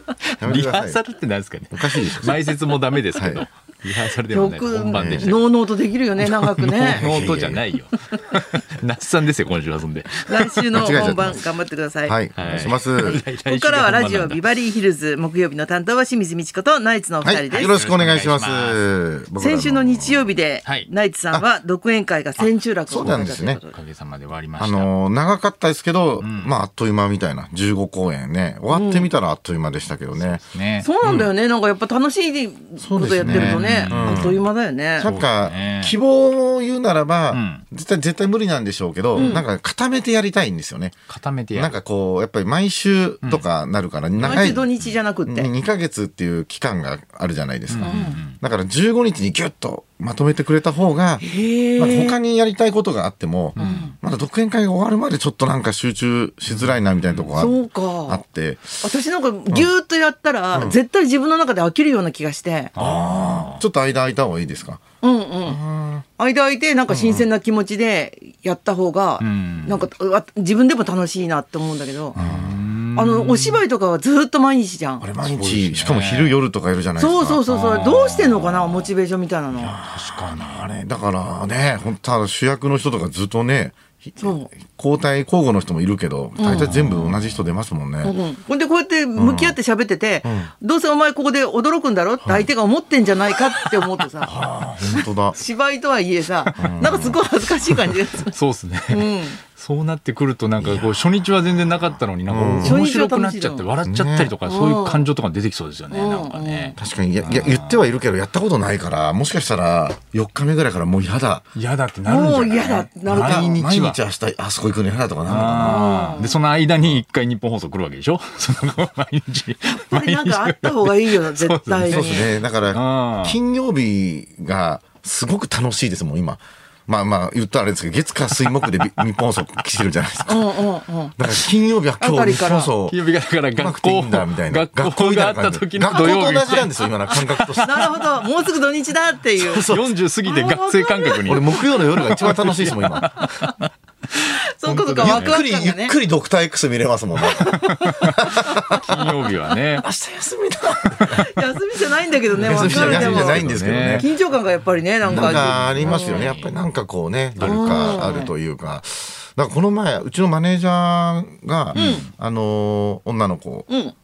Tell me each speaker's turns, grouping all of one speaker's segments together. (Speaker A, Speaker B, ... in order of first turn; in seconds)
Speaker A: 0.2-5.5, 6.2-11.0, 12.3-14.4, 17.5-18.9, 22.4-24.9, 26.2-26.5, 30.1-30.9, 33.2-34.3, 35.0-36.0, 37.3-37.6, 39.1-39.4, 41.1-41.7, 44.2-44.4, 47.7-48.4, 53.6-53.9, 56.5-57.3, 62.8-63.6, 69.2-69.9, 72.1-73.6, 75.2-76.4, 77.5-78.9, 79.9-80.7, 86.5-87.4, 96.5-96.8, 98.3-107.9, 111.5-114.0, 115.2-123.4, 132.9-137.8, 139.4-143.7, 145.0-145.4, 147.7-148.1, 148.8-149.9, 152.3-154.1, 155.0-156.5, 157.3-158.2, 161.7-162.1
Speaker B: 0.4-1.0, 1.7-2.4, 3.1-3.5, 4.9-5.3, 6.8-7.6, 10.7-11.4, 12.1-13.2, 17.2-20.3, 22.9-23.6, 24.6-30.4, 31.0-31.3, 32.8-34.4, 35.0-41.0, 41.5-44.7, 45.2-51.2, 51.8-58.9, 60.5-60.8, 62.8-64.8, 65.4-66.0, 66.9-67.2, 72.2-72.6, 75.0-77.4, 79.5-88.1, 89.2-89.6, 90.2-90.5, 94.2-95.4, 96.6-97.2, 100.6-101.0, 102.3-102.8, 103.8-104.3, 106.8-111.5, 113.0-115.9, 121.9-130.6, 131.2-133.0, 133.6-137.8, 141.2-143.1, 144.6-149.1, 149.8-151.3, 152.4-154.1, 155.1-163.7
Speaker C: 4.3-7.1, 10.3-12.2, 13.4-17.8, 19.4-23.7, 28.7-29.1, 30.8-35.1, 39.1-39.4, 44.2-45.5, 47.8-48.2, 51.2-52.2, 53.6-53.9, 57.3-58.2, 58.8-62.7, 65.0-65.6, 66.2-72.2, 72.9-75.0, 77.0-79.8, 84.2-84.5, 86.4-86.7, 88.0-94.3, 94.9-98.3, 98.9-99.4, 102.6-103.7, 104.4-105.1, 105.9-106.8, 112.0-113.6, 115.6-116.3, 119.9-122.3, 130.3-131.2, 132.0-132.7, 137.5-139.7, 140.2-141.6, 143.2-143.6, 144.2-145.9, 147.2-148.6, 151.1-156.3, 157.4-158.3, 161.7-162.0, 163.7-163.9